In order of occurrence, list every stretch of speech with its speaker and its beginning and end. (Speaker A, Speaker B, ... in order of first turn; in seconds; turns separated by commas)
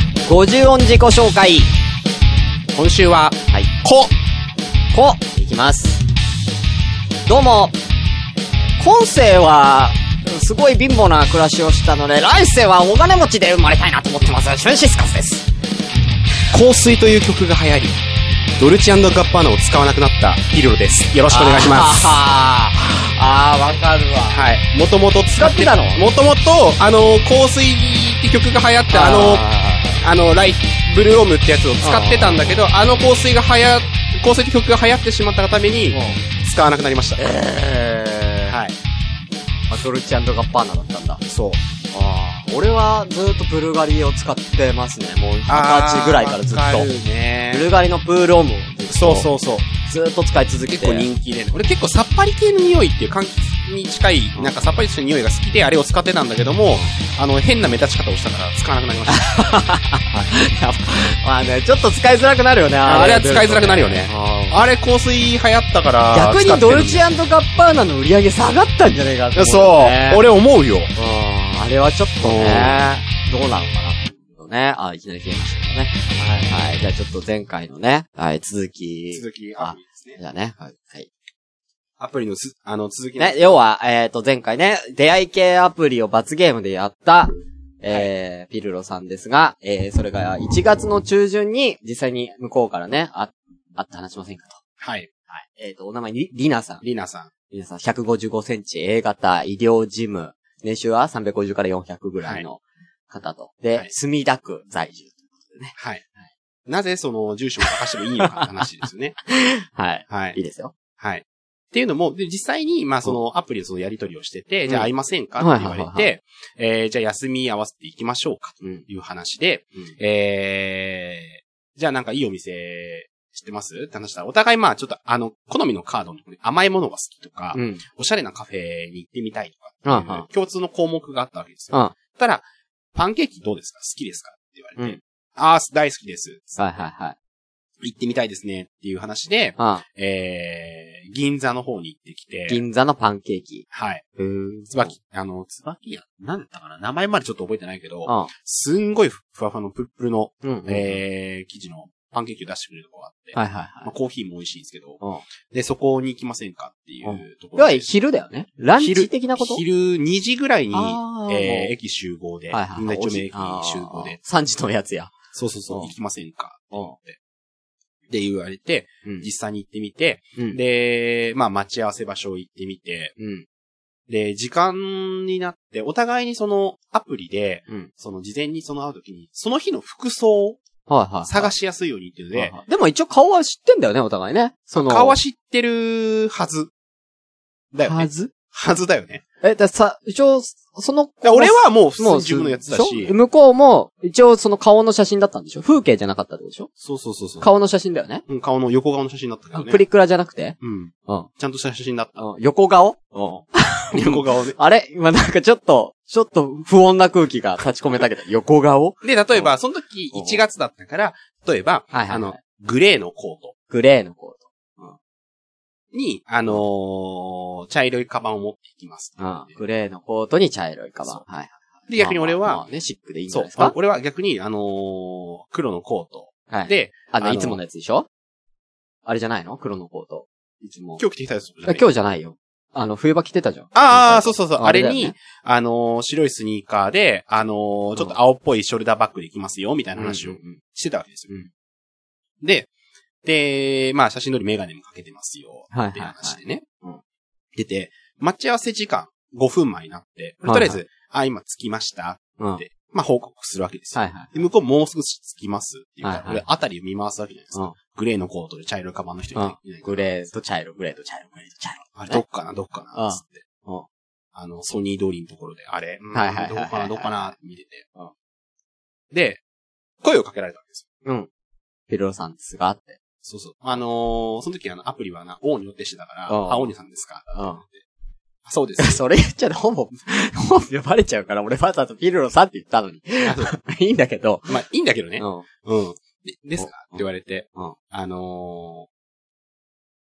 Speaker A: 0.2-1.7, Speaker B: 2.7-4.1, Speaker A: 4.9-6.0, Speaker A: 7.3-7.8, Speaker A: 8.8-15.5, Speaker B: 16.5-18.0, Speaker B: 18.6-22.2, Speaker A: 21.3-24.4, Speaker B: 24.3-29.4, Speaker A: 25.4-26.0, Speaker A: 28.9-30.0, Speaker B: 30.0-37.2, Speaker A: 31.8-32.5, Speaker A: 35.9-36.2, Speaker A: 37.2-38.6, Speaker B: 38.5-38.8, Speaker A: 39.7-41.2, Speaker B: 41.3-41.6, Speaker A: 41.9-46.9, Speaker B: 45.5-47.7, Speaker A: 47.5-51.1, Speaker B: 48.9-49.7, Speaker B: 50.7-59.6, Speaker A: 59.1-64.6, Speaker B: 62.8-67.1, Speaker A: 66.1-70.3, Speaker B: 69.3-70.9, Speaker A: 71.0-81.1, Speaker B: 72.2-72.9, Speaker B: 76.1-76.5, Speaker B: 79.1-80.2, Speaker B: 82.0-83.6, Speaker A: 83.2-94.6, Speaker B: 94.8-95.1, Speaker A: 95.3-96.8, Speaker B: 96.8-97.3, Speaker A: 97.5-105.8, Speaker B: 105.8-106.0, Speaker B: 106.7-109.2, Speaker A: 109.3-110.7, Speaker B: 110.1-110.4, Speaker B: 111.0-136.6, Speaker A: 114.7-116.1, Speaker A: 127.5-127.8, Speaker A: 129.8-130.2, Speaker A: 136.6-137.2, Speaker B: 137.8-142.6, Speaker A: 139.6-139.8, Speaker A: 142.5-143.7, Speaker B: 143.7-144.0, Speaker A: 144.2-144.9, Speaker B: 144.7-157.9, Speaker A: 148.1-148.3, Speaker A: 150.4-151.0, Speaker A: 153.3-153.9, Speaker A: 157.0-159.6, Speaker B: 158.8-164.2, Speaker A: 160.7-161.7, Speaker A: 162.5-165.2, Speaker B: 165.3-167.2, Speaker B: 168.1-173.1, Speaker A: 173.2-173.4, Speaker B: 174.1-180.6, Speaker A: 180.9-181.5, Speaker B: 181.2-182.6, Speaker A: 182.3-185.2, Speaker B: 184.8-186.7, Speaker B: 187.7-189.2, Speaker A: 187.8-188.3, Speaker A: 189.4-196.7, Speaker B: 191.2-193.2, Speaker B: 196.8-197.5, Speaker A: 197.4-198.2, Speaker B: 198.3-199.8, Speaker A: 199.5-201.3, Speaker B: 200.6-202.2, Speaker A: 202.2-209.5, Speaker B: 203.9-204.6, Speaker B: 209.0-213.5, Speaker A: 210.1-210.4, Speaker A: 211.9-212.4, Speaker A: 213.7-215.0, Speaker B: 215.9-219.6, Speaker A: 219.2-223.8, Speaker B: 221.9-222.6, Speaker B: 223.3-227.6, Speaker A: 226.5-228.1, Speaker A: 229.1-231.0, Speaker B: 231.0-231.9, Speaker A: 231.7-235.2, Speaker B: 233.8-241.4, Speaker A: 240.0-240.6, Speaker B: 242.4-242.7, Speaker B: 243.2-246.6, Speaker A: 245.7-247.0, Speaker B: 247.6-260.2, Speaker A: 250.4-250.8, Speaker A: 253.9-254.3, Speaker A: 256.0-256.4, Speaker A: 259.3-262.2, Speaker B: 261.9-263.4, Speaker A: 262.9-263.9, Speaker B: 264.4-267.9, Speaker A: 266.1-267.3, Speaker B: 269.1-269.4, Speaker B: 270.0-270.9, Speaker A: 271.9-273.0, Speaker B: 273.2-277.8, Speaker A: 276.3-276.7, Speaker A: 277.3-277.6, Speaker B: 278.5-279.0, Speaker A: 278.8-284.6, Speaker B: 283.2-283.6, Speaker B: 284.5-288.9, Speaker A: 285.2-285.5, Speaker A: 286.6-287.8